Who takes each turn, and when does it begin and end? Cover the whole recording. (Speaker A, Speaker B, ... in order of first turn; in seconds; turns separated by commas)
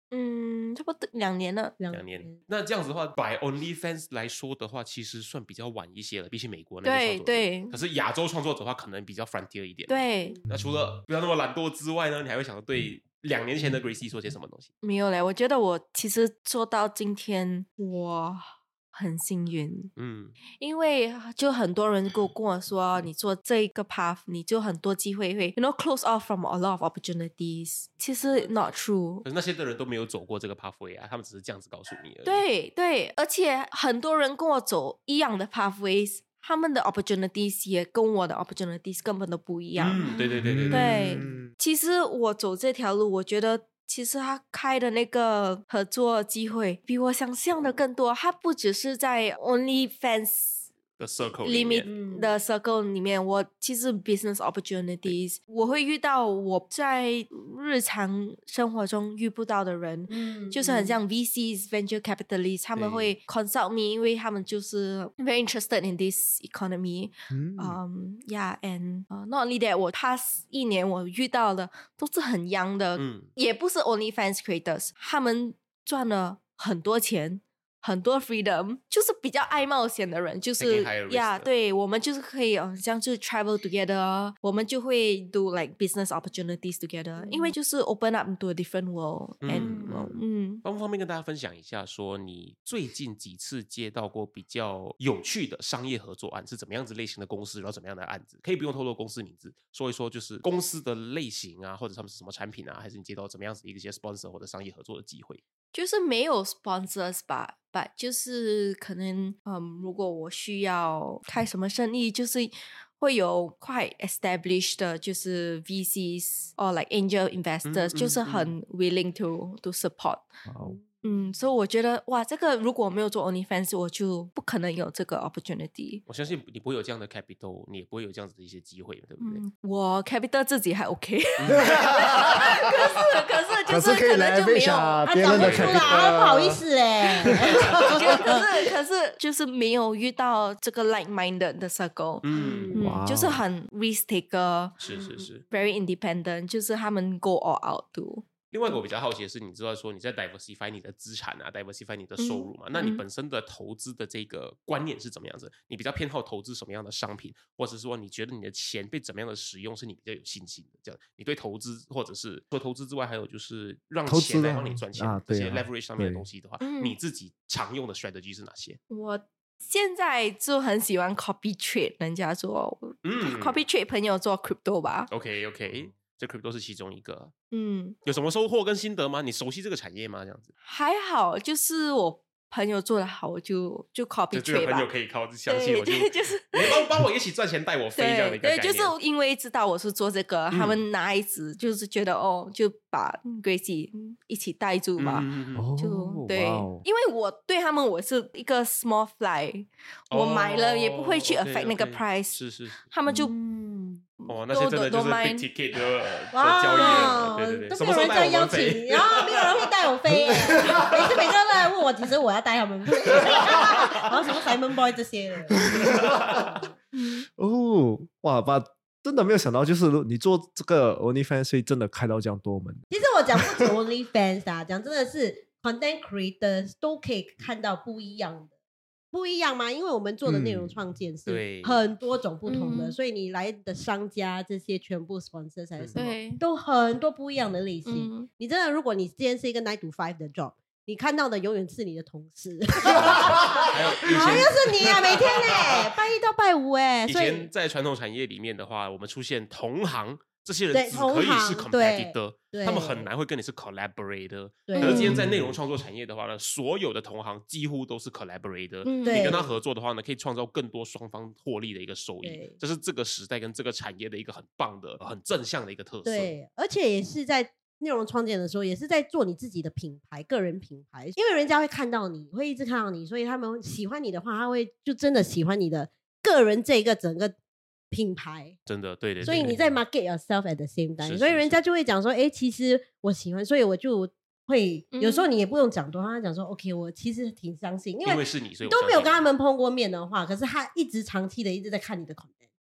Speaker A: 0.1-1.7, Speaker B: 1.8-2.4, Speaker C: 1.9-14.7, Speaker A: 6.8-7.8, Speaker A: 9.9-10.4, Speaker A: 14.8-19.9, Speaker C: 19.9-20.4, Speaker A: 20.6-29.3, Speaker C: 29.2-32.4, Speaker A: 32.2-40.1, Speaker C: 39.8-41.0, Speaker D: 40.4-41.5, Speaker A: 40.7-50.6, Speaker C: 51.0-51.9, Speaker A: 51.4-90.6, Speaker B: 51.9-52.3, Speaker B: 60.1-61.0, Speaker C: 62.8-63.1, Speaker D: 67.3-67.8, Speaker C: 73.0-73.3, Speaker C: 80.6-81.5, Speaker B: 87.2-87.5, Speaker C: 89.4-105.4, Speaker B: 89.5-90.0, Speaker A: 105.7-120.3, Speaker C: 117.6-118.5, Speaker D: 120.5-120.8, Speaker A: 121.0-126.0, Speaker C: 126.1-129.4, Speaker A: 129.2-135.3, Speaker C: 131.4-131.7, Speaker D: 131.5-132.5, Speaker D: 133.7-136.6, Speaker B: 135.0-138.4, Speaker C: 135.3-136.1, Speaker D: 137.3-137.8, Speaker A: 137.8-144.8, Speaker C: 142.2-142.8, Speaker B: 142.3-142.9, Speaker D: 142.7-143.4, Speaker C: 144.8-145.4, Speaker B: 144.9-145.2, Speaker A: 145.5-148.8, Speaker C: 148.5-168.8, Speaker A: 152.2-153.0, Speaker D: 164.1-166.2, Speaker A: 166.6-166.9, Speaker A: 168.9-175.1, Speaker C: 173.0-173.6, Speaker C: 175.1-177.3, Speaker A: 177.5-178.0, Speaker C: 178.1-180.5, Speaker A: 180.6-184.9, Speaker C: 184.3-188.9, Speaker A: 185.5-186.9, Speaker A: 187.9-203.3, Speaker C: 190.5-190.8, Speaker C: 195.0-195.7, Speaker D: 195.6-196.8, Speaker C: 200.1-202.9, Speaker B: 203.1-204.0, Speaker A: 204.2-205.5, Speaker C: 204.3-209.7, Speaker B: 206.3-216.1, Speaker A: 206.7-207.2, Speaker D: 210.3-210.9, Speaker C: 210.7-211.3, Speaker D: 215.6-216.6, Speaker A: 216.9-217.3, Speaker D: 217.4-222.8, Speaker B: 222.9-228.5, Speaker B: 229.1-247.5, Speaker D: 230.2-230.8, Speaker C: 231.3-231.8, Speaker A: 232.4-232.9, Speaker A: 235.9-236.4, Speaker A: 237.9-238.3, Speaker D: 242.9-243.7, Speaker C: 242.9-245.9, Speaker C: 247.1-266.3, Speaker B: 250.7-253.1, Speaker B: 254.7-255.2, Speaker A: 254.7-255.2, Speaker D: 255.0-255.6, Speaker A: 258.9-259.4, Speaker B: 259.0-259.6, Speaker B: 262.2-262.6, Speaker B: 266.1-277.4, Speaker B: 277.9-278.6, Speaker C: 278.7-279.8, Speaker B: 279.2-292.3, Speaker C: 281.0-281.6, Speaker A: 284.9-285.3, Speaker C: 288.0-289.2